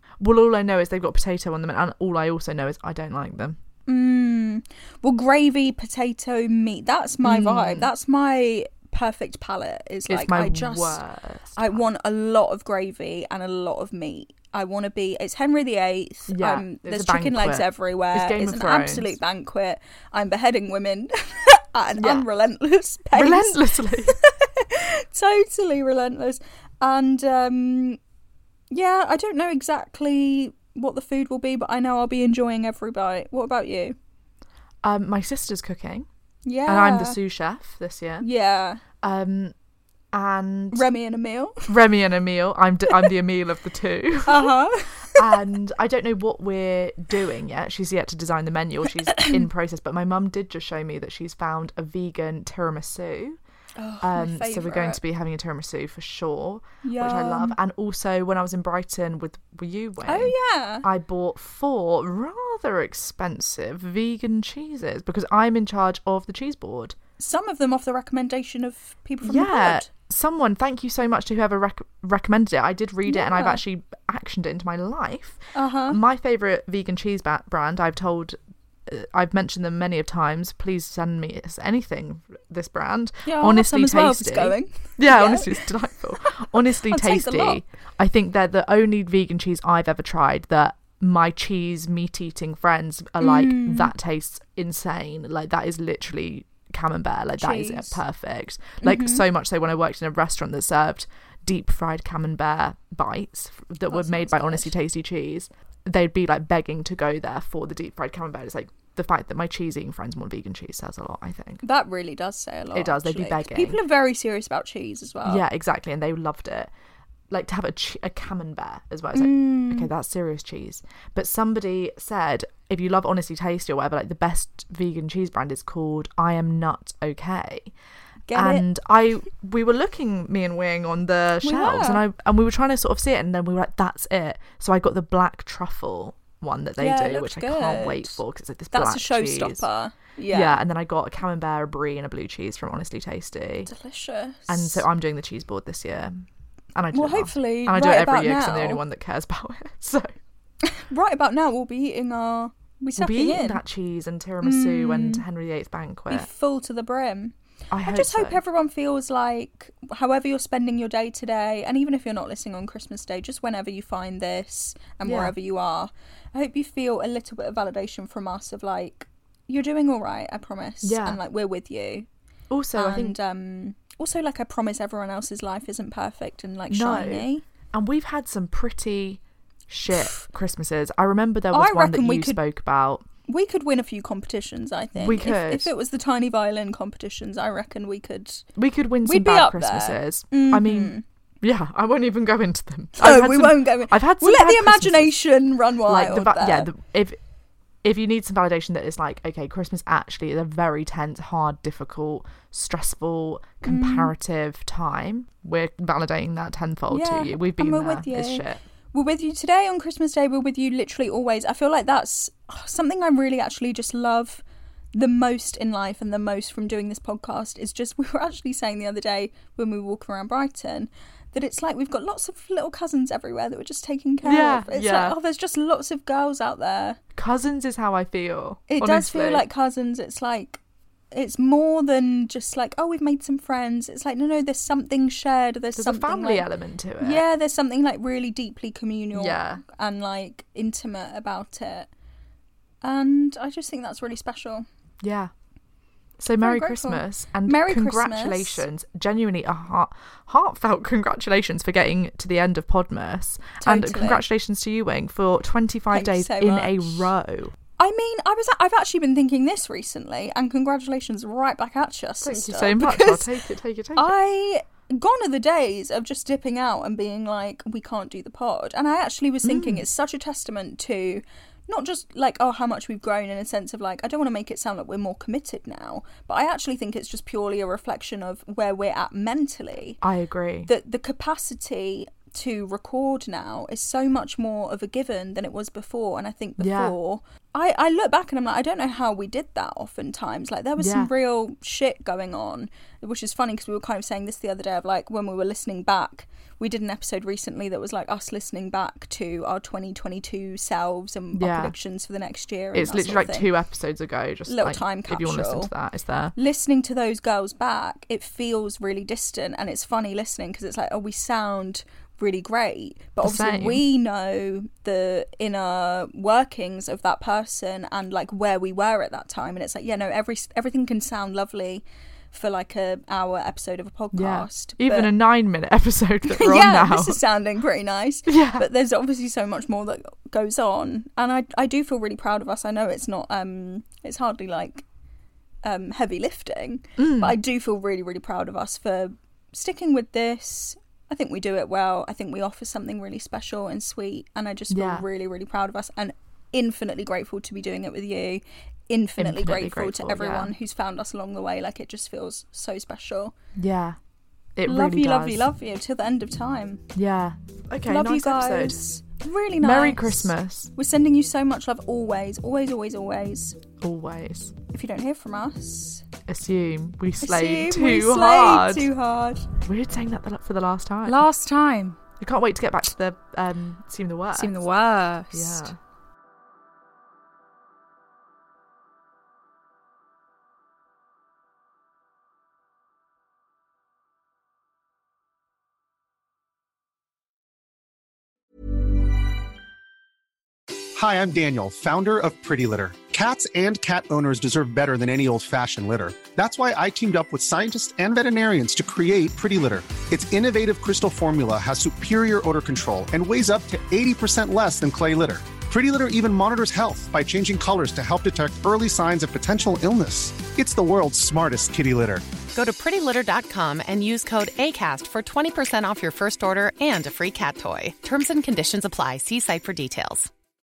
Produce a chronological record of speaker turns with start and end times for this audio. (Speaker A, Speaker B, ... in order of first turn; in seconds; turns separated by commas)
Speaker A: 0.2-3.6, Speaker B: 3.9-11.0, Speaker A: 7.2-7.9, Speaker A: 10.1-11.8, Speaker B: 11.6-28.0, Speaker A: 16.3-19.2, Speaker A: 22.0-22.2, Speaker A: 23.1-24.2, Speaker B: 28.7-33.9, Speaker A: 34.8-36.1, Speaker B: 36.4-37.2, Speaker A: 36.6-38.3, Speaker B: 38.2-38.8, Speaker A: 39.0-39.5, Speaker A: 40.1-40.9, Speaker B: 40.7-41.7, Speaker A: 41.7-44.5, Speaker B: 44.2-45.4, Speaker A: 45.1-53.4, Speaker B: 53.8-55.0, Speaker A: 54.0-60.3, Speaker B: 56.8-57.6, Speaker B: 60.0-60.9, Speaker A: 60.8-66.9, Speaker B: 67.2-69.9, Speaker A: 69.2-111.6, Speaker B: 73.1-73.6, Speaker B: 75.5-76.0, Speaker B: 83.2-85.7, Speaker B: 86.8-87.6, Speaker B: 93.2-93.9, Speaker B: 97.4-98.0, Speaker B: 98.8-99.2, Speaker B: 103.9-104.7, Speaker B: 111.6-115.4, Speaker A: 112.7-113.8, Speaker A: 115.2-116.7, Speaker A: 117.3-127.7, Speaker B: 119.1-119.9, Speaker B: 128.3-128.7, Speaker A: 128.3-139.7, Speaker B: 131.4-132.0, Speaker B: 136.8-140.6, Speaker A: 140.3-143.7, Speaker B: 143.6-144.9, Speaker A: 144.5-150.1, Speaker B: 146.9-148.8, Speaker B: 150.7-153.6, Speaker A: 152.9-156.3, Speaker B: 154.4-155.2, Speaker B: 156.1-172.1, Speaker A: 157.7-158.4, Speaker A: 165.0-165.3, Speaker A: 170.8-171.2, Speaker A: 172.5-173.2, Speaker B: 172.7-177.4, Speaker A: 176.7-183.0, Speaker B: 181.5-182.4, Speaker B: 183.2-188.4, Speaker A: 184.9-185.7, Speaker A: 188.6-195.1, Speaker B: 189.0-191.0, Speaker B: 193.0-196.7, Speaker A: 195.8-197.2, Speaker A: 197.8-208.6, Speaker B: 203.6-204.1, Speaker B: 206.9-227.0, Speaker A: 224.2-225.2, Speaker A: 227.2-229.5, Speaker B: 228.7-230.6, Speaker B: 231.1-236.5, Speaker A: 235.7-237.2, Speaker B: 237.0-241.9, Speaker A: 239.1-239.6, Speaker B: 242.8-244.6, Speaker A: 245.0-245.3, Speaker A: 246.2-257.5, Speaker B: 246.4-248.7, Speaker B: 253.6-254.2, Speaker B: 255.9-257.1, Speaker B: 257.8-263.3, Speaker A: 262.2-264.1, Speaker B: 263.9-280.0, Speaker A: 269.4-269.8, Speaker A: 280.0-280.7, Speaker B: 280.7-303.5, Speaker A: 286.6-286.9, Speaker A: 290.8-291.1, Speaker A: 301.3-301.7, Speaker A: 302.7-306.3, Speaker B: 304.5-305.7, Speaker B: 306.3-325.1, Speaker A: 313.2-313.8, Speaker A: 324.1-327.2, Speaker B: 326.3-334.8, Speaker A: 328.3-328.7, Speaker B: 335.6-353.3, Speaker A: 337.0-337.4, Speaker A: 344.7-345.1, Speaker A: 349.2-350.6, Speaker A: 353.6-354.0, Speaker A: 354.6-355.5, Speaker B: 354.6-356.8, Speaker A: 356.9-358.8, Speaker B: 357.9-363.6, Speaker A: 359.6-360.7, Speaker A: 363.8-364.5, Speaker B: 364.7-366.1, Speaker A: 366.3-368.9, Speaker B: 367.2-369.5, Speaker A: 369.6-371.2, Speaker B: 371.1-372.0, Speaker A: 372.2-374.6, Speaker B: 374.3-375.7, Speaker A: 375.3-375.8, Speaker C: 390.9-412.2, Speaker D: 412.5-420.3